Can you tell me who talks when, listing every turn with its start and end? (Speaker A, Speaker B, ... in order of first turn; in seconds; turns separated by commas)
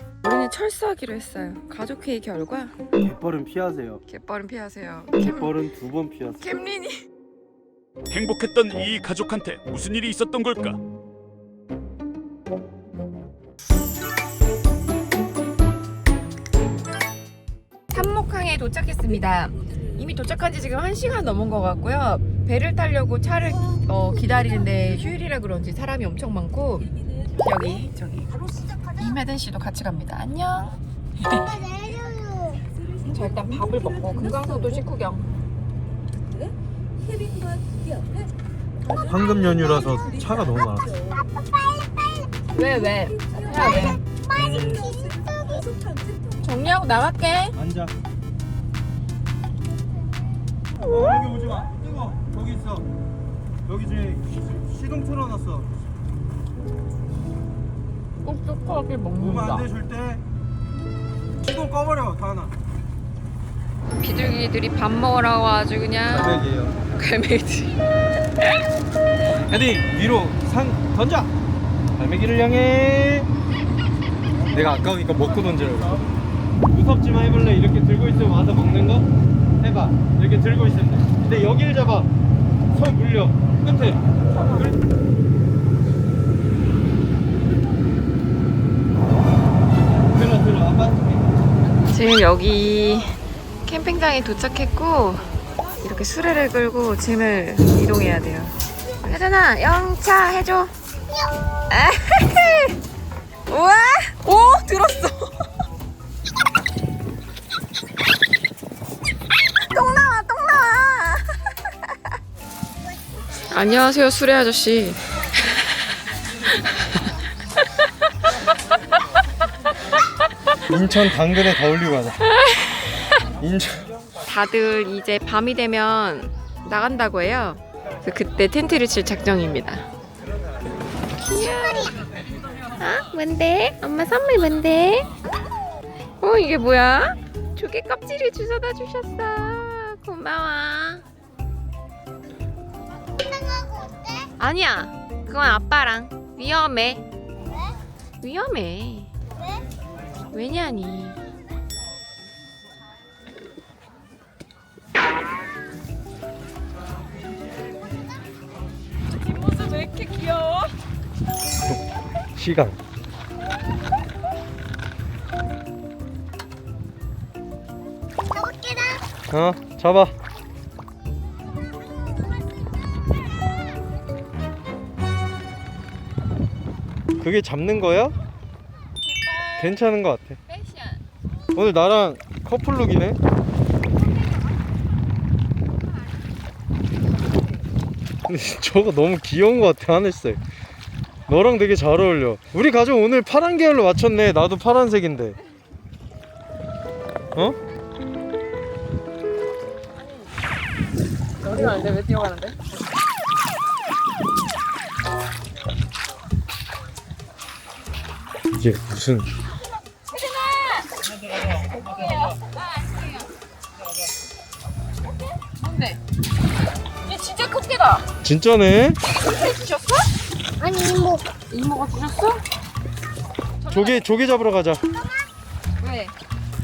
Speaker A: 0.2-2.8, Speaker B: 3.0-4.0, Speaker A: 4.0-5.6, Speaker B: 5.2-6.5, Speaker A: 6.4-7.0, Speaker C: 8.1-10.8, Speaker A: 17.9-28.3, Speaker A: 28.9-30.8, Speaker D: 31.3-32.6, Speaker A: 33.0-35.3, Speaker D: 38.9-40.2, Speaker B: 39.0-40.9, Speaker D: 40.9-42.3, Speaker A: 42.5-44.0, Speaker D: 43.5-45.9, Speaker B: 44.4-44.8, Speaker A: 46.4-47.5, Speaker B: 47.5-47.9, Speaker B: 50.8-52.9, Speaker B: 53.7-55.7, Speaker A: 58.2-59.7, Speaker B: 59.2-60.2, Speaker B: 61.4-62.5, Speaker A: 64.0-66.4, Speaker B: 66.1-66.8, Speaker A: 66.9-67.8, Speaker B: 69.3-71.3, Speaker B: 72.0-73.3, Speaker B: 74.5-76.0, Speaker B: 76.7-79.1, Speaker B: 79.6-82.1, Speaker B: 82.7-84.8, Speaker B: 90.1-91.3, Speaker A: 91.9-95.2, Speaker A: 95.8-100.7, Speaker A: 101.7-102.7, Speaker A: 103.5-105.3, Speaker A: 109.7-111.2, Speaker A: 113.5-115.0, Speaker B: 120.7-122.2, Speaker B: 123.4-123.9, Speaker A: 124.2-129.9, Speaker A: 131.2-132.0, Speaker D: 131.3-131.9, Speaker A: 132.8-135.1, Speaker A: 136.2-141.0, Speaker D: 143.1-144.3, Speaker A: 144.4-147.0, Speaker A: 148.2-149.1, Speaker A: 150.3-151.2, Speaker A: 159.2-160.7, Speaker B: 162.3-162.8, Speaker D: 168.3-169.0, Speaker B: 169.3-170.1, Speaker B: 177.2-178.1, Speaker A: 179.0-179.8, Speaker B: 179.6-180.4, Speaker A: 180.5-181.0, Speaker B: 181.5-183.2, Speaker B: 188.3-190.4, Speaker B: 191.3-195.4, Speaker A: 201.4-202.6, Speaker B: 208.5-209.3, Speaker A: 210.1-210.9, Speaker A: 211.4-212.9, Speaker A: 215.4-216.0, Speaker A: 217.0-218.0, Speaker B: 218.2-219.0, Speaker A: 219.2-220.0, Speaker D: 220.6-221.3, Speaker A: 221.5-222.4, Speaker A: 223.6-224.0, Speaker B: 223.7-224.8, Speaker A: 225.8-226.1